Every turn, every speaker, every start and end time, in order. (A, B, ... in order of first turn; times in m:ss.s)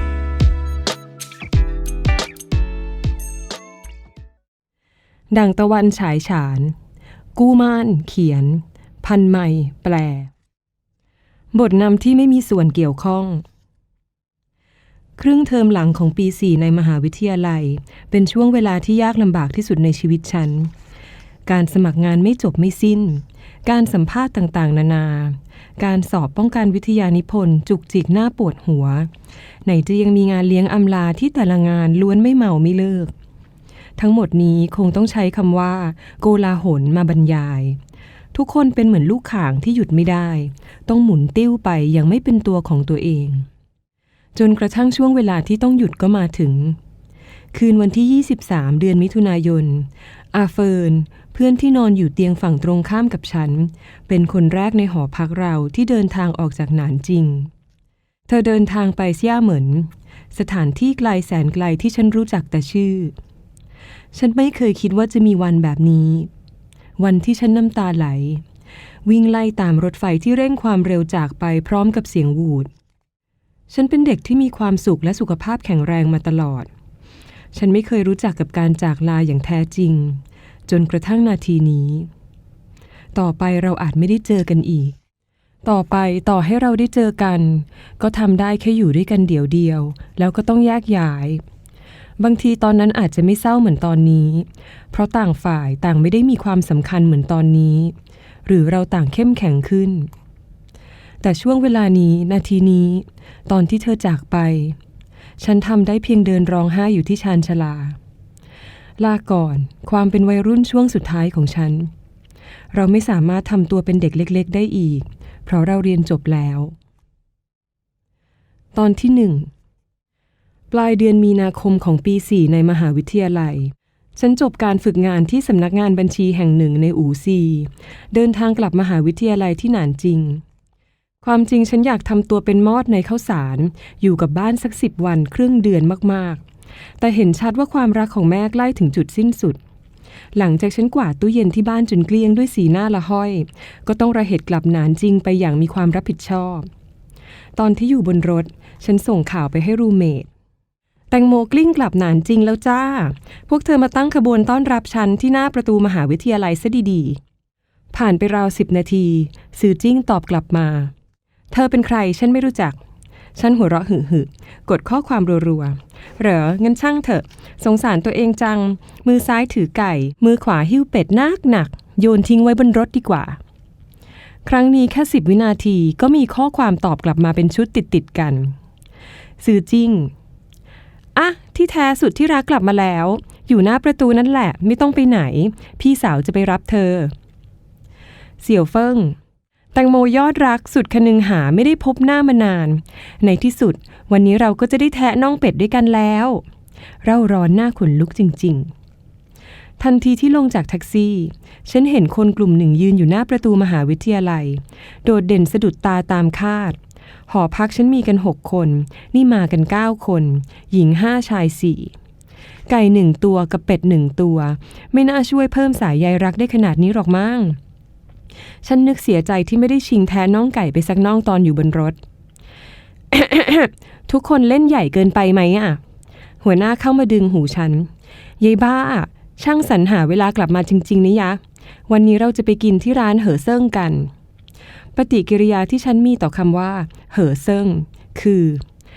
0:05.3-0:06.8 A
0:07.3-0:10.3 A
0:11.5-0:13.4 A
0:15.2-0:20.7 A
0:21.4-0:29.1 A
0:29.6-0:33.1 A
0:34.0-0:37.8 A
0:38.3-0:43.5 A
0:44.3-0:46.8 A
0:47.5-0:57.5 A
0:58.3-1:03.1 A
1:04.1-1:06.3 A
1:07.0-1:08.4 A
1:09.0-1:12.7 A
1:13.7-1:16.7 A
1:17.5-1:22.1 A
1:23.1-1:25.0 A
1:25.6-1:31.4 A
1:32.2-1:40.1 A
1:41.2-1:44.8 A
1:45.4-1:48.0 A
1:49.0-1:51.9 A
1:52.7-1:56.7 A
1:58.7-1:59.5 A
2:00.7-2:10.4 A
2:11.2-2:16.4 A
2:17.0-2:19.6 A
2:20.3-2:26.7 A
2:27.6-2:30.3 A
2:31.1-2:37.2 A
2:37.9-2:40.9 A
2:41.5-2:42.8 A
2:43.3-2:53.4 A
2:54.4-2:58.6 A
2:59.4-3:00.1 A
3:01.1-3:07.1 A
3:08.4-3:09.2 A
3:09.7-3:16.4 A
3:17.0-3:18.7 A
3:19.8-3:31.9 A
3:32.7-3:37.6 A
3:38.6-3:42.0 A
3:43.1-3:45.8 A
3:46.4-3:54.1 A
3:54.9-3:58.6 A